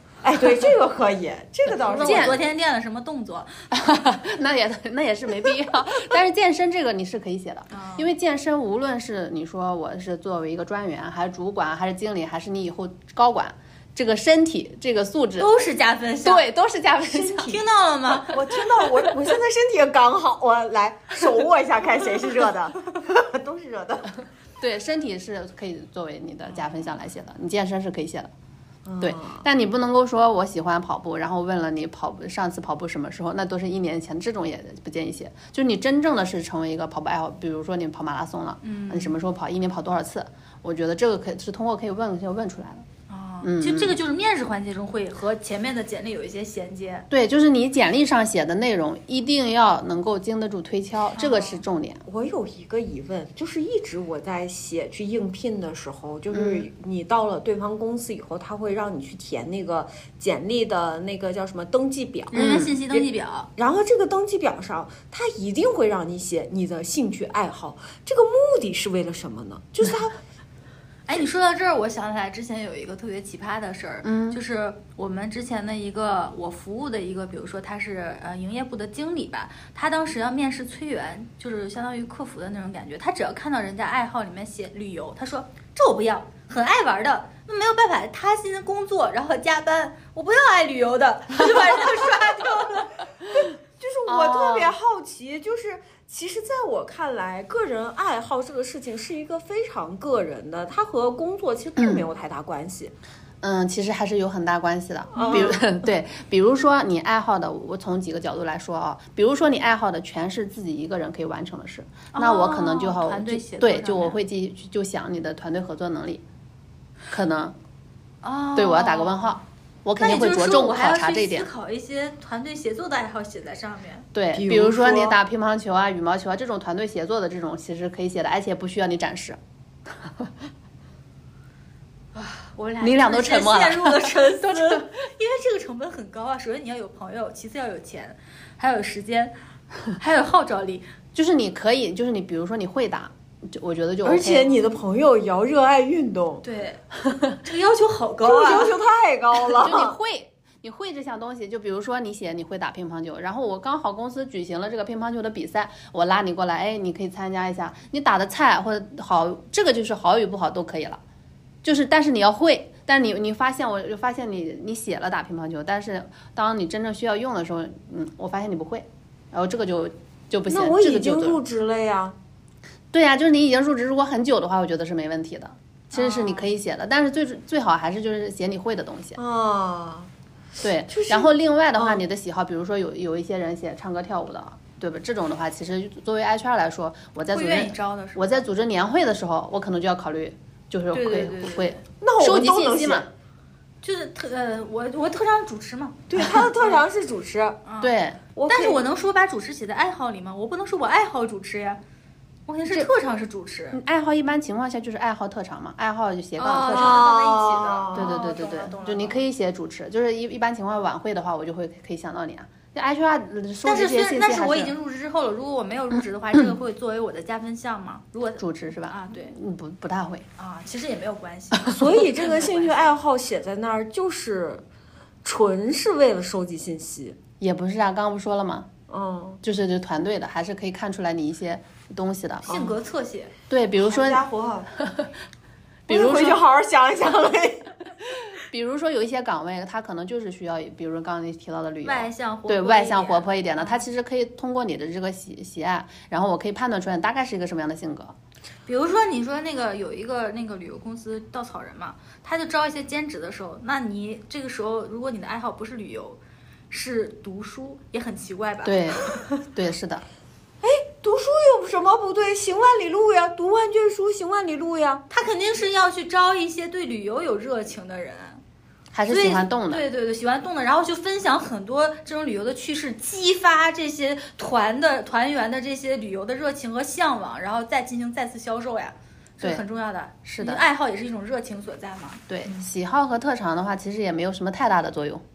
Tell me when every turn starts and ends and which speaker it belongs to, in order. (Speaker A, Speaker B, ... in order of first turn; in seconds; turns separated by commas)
Speaker A: 0.2-2.4, Speaker B: 1.8-3.6, Speaker C: 1.9-2.4, Speaker C: 3.7-15.6, Speaker B: 7.7-8.1, Speaker B: 15.4-16.5, Speaker C: 16.2-17.6, Speaker B: 17.1-18.4, Speaker A: 18.3-24.2, Speaker C: 24.6-28.3, Speaker A: 28.9-29.4, Speaker C: 29.0-42.9, Speaker B: 38.6-39.1, Speaker B: 43.1-47.1, Speaker C: 43.4-44.0, Speaker C: 47.1-52.0, Speaker B: 51.2-51.6, Speaker A: 52.1-70.2, Speaker C: 56.3-56.7, Speaker B: 62.3-63.5, Speaker C: 62.4-62.8, Speaker B: 71.1-92.9, Speaker C: 74.0-74.4, Speaker A: 93.3-102.9, Speaker C: 94.1-94.8, Speaker C: 101.8-102.1, Speaker C: 103.4-116.2, Speaker B: 105.2-105.5, Speaker A: 105.2-105.6, Speaker B: 112.1-114.2, Speaker C: 117.1-117.6, Speaker B: 118.2-119.4, Speaker C: 118.5-121.5, Speaker B: 120.0-124.1, Speaker C: 124.1-130.3, Speaker A: 124.3-125.2, Speaker B: 132.2-139.3, Speaker C: 132.8-134.9, Speaker B: 139.9-140.8, Speaker C: 141.2-144.5, Speaker A: 144.0-146.4, Speaker B: 146.4-146.8, Speaker B: 147.4-148.7, Speaker A: 148.2-150.0, Speaker C: 149.6-161.0, Speaker C: 161.6-171.4, Speaker A: 170.5-172.2, Speaker C: 172.9-179.2, Speaker B: 175.9-176.5, Speaker A: 179.2-180.1, Speaker C: 180.6-193.1, Speaker A: 180.9-182.0, Speaker B: 187.3-188.4, Speaker B: 190.9-191.8, Speaker A: 192.0-193.1, Speaker B: 193.8-196.0, Speaker A: 196.1-197.6, Speaker B: 197.7-197.9, Speaker C: 197.8-198.2, Speaker A: 198.3-198.8, Speaker B: 198.5-201.8, Speaker B: 202.5-203.8, Speaker C: 203.7-207.1, Speaker B: 206.4-209.2, Speaker A: 206.7-208.1, Speaker C: 207.9-214.8, Speaker B: 213.6-219.3, Speaker C: 218.4-220.2, Speaker B: 220.4-222.7, Speaker C: 221.6-221.8, Speaker A: 221.7-224.6, Speaker A: 225.2-227.2, Speaker C: 227.4-228.7, Speaker A: 228.9-229.4, Speaker C: 229.4-232.5, Speaker A: 232.5-232.8, Speaker B: 232.5-233.3, Speaker C: 233.5-234.2, Speaker A: 233.8-234.7, Speaker C: 234.8-235.1, Speaker C: 235.9-236.4, Speaker A: 235.9-237.7, Speaker C: 238.0-248.2, Speaker B: 241.8-243.8, Speaker B: 248.7-259.1, Speaker C: 258.6-260.0, Speaker A: 260.6-265.1, Speaker B: 265.1-268.4, Speaker C: 268.9-269.8, Speaker B: 269.1-282.3, Speaker C: 280.2-280.6, Speaker C: 282.3-285.2